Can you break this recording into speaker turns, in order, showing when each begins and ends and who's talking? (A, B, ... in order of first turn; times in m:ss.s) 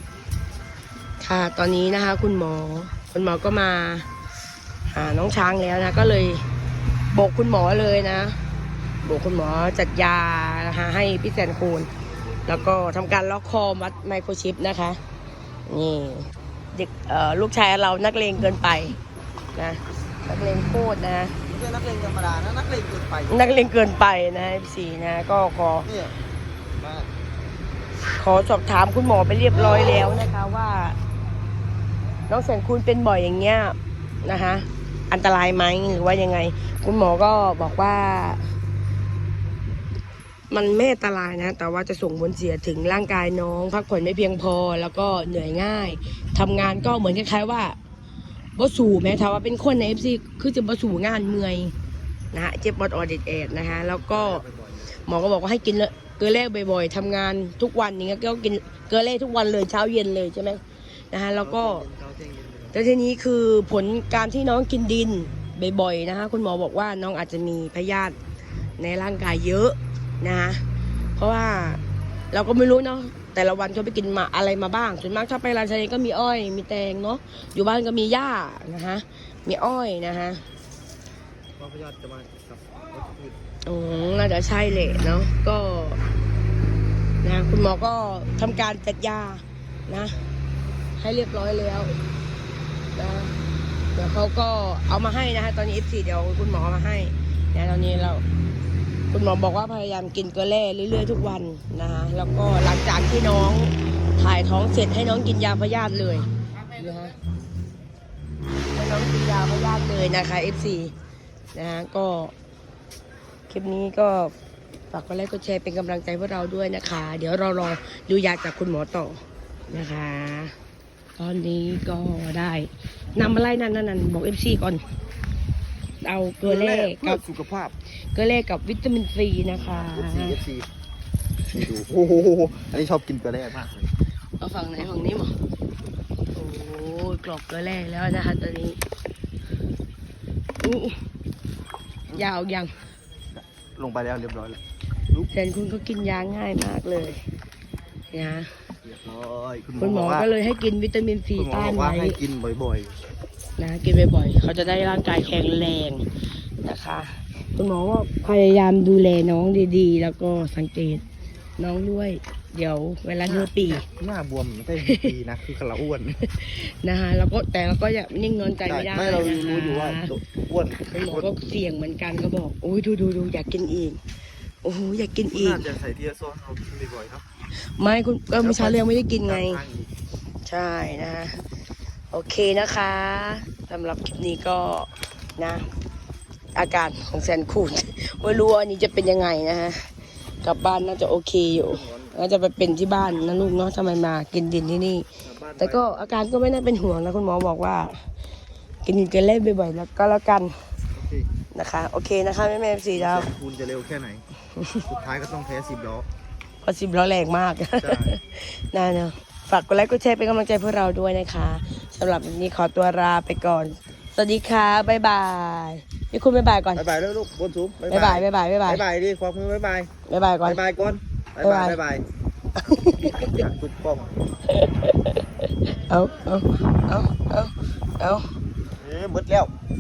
0:01.2-0:04.1 A
0:04.9-0:06.4 A
0:07.1-0:08.4 A
0:09.0-0:11.9 A
0:12.5-0:15.0 A
0:15.7-0:19.0 A
0:19.6-0:21.4 A
0:21.5-0:23.5 B
0:23.3-0:25.9 A
0:25.9-0:26.1 B
0:26.8-0:27.1 B
0:28.2-0:31.0 A
0:32.3-0:38.4 A
0:40.5-0:47.8 A
0:48.6-0:51.7 A
0:52.3-0:54.4 A
0:54.1-0:55.0 B
0:55.1-1:01.9 A
1:01.4-1:02.9 B
1:02.7-1:08.2 A
1:08.8-1:10.6 A
1:11.2-1:11.8 A
1:12.3-1:20.4 A
1:21.6-1:23.4 B
1:23.7-1:26.0 A
1:27.2-1:30.2 A
1:31.0-1:32.0 A
1:33.0-1:33.4 A
1:34.0-1:38.2 A
1:39.1-1:47.2 A
1:48.7-1:50.9 A
1:51.5-1:52.3 A
1:53.5-1:54.3 A
1:54.9-2:00.6 A
2:01.2-2:04.8 A
2:06.0-2:07.2 A
2:06.4-2:07.8 B
2:08.1-2:10.4 A
2:09.5-2:10.7 B
2:11.5-2:13.9 B
2:14.4-2:15.4 A
2:16.3-2:18.8 A
2:20.6-2:21.0 A
2:22.1-2:22.7 A
2:23.8-2:24.6 B
2:25.3-2:27.2 A
2:28.1-2:28.5 A
2:28.8-2:30.3 B
2:29.8-2:32.2 A
2:31.4-2:33.0 B
2:33.6-2:36.1 A
2:36.6-2:41.0 A
2:41.6-2:43.9 A
2:43.2-2:46.2 B
2:44.8-2:45.1 A
2:46.2-2:50.1 A
2:48.7-2:51.3 B
2:50.8-2:54.0 A
2:54.6-2:55.7 A
2:55.3-2:57.2 B
2:57.8-2:59.6 A
2:58.4-2:59.9 B
3:00.5-3:01.4 A
3:02.1-3:05.7 A
3:06.6-3:09.9 A
3:10.4-3:15.1 A
3:11.5-3:12.2 B
3:15.2-3:16.0 B
3:15.6-3:18.0 A
3:18.8-3:20.6 A
3:21.0-3:21.3 B
3:21.5-3:23.3 A
3:22.9-3:24.2 B
3:24.6-3:24.8 A
3:24.8-3:26.1 B
3:26.6-3:36.8 A
3:27.8-3:28.2 B
3:36.8-3:39.9 B
3:37.9-3:38.8 A
3:40.1-3:40.6 A
3:40.4-3:42.0 B
3:41.4-3:41.8 A
3:42.6-3:43.4 A
3:42.8-3:44.1 B
3:44.5-3:48.2 A
3:48.8-3:49.5 B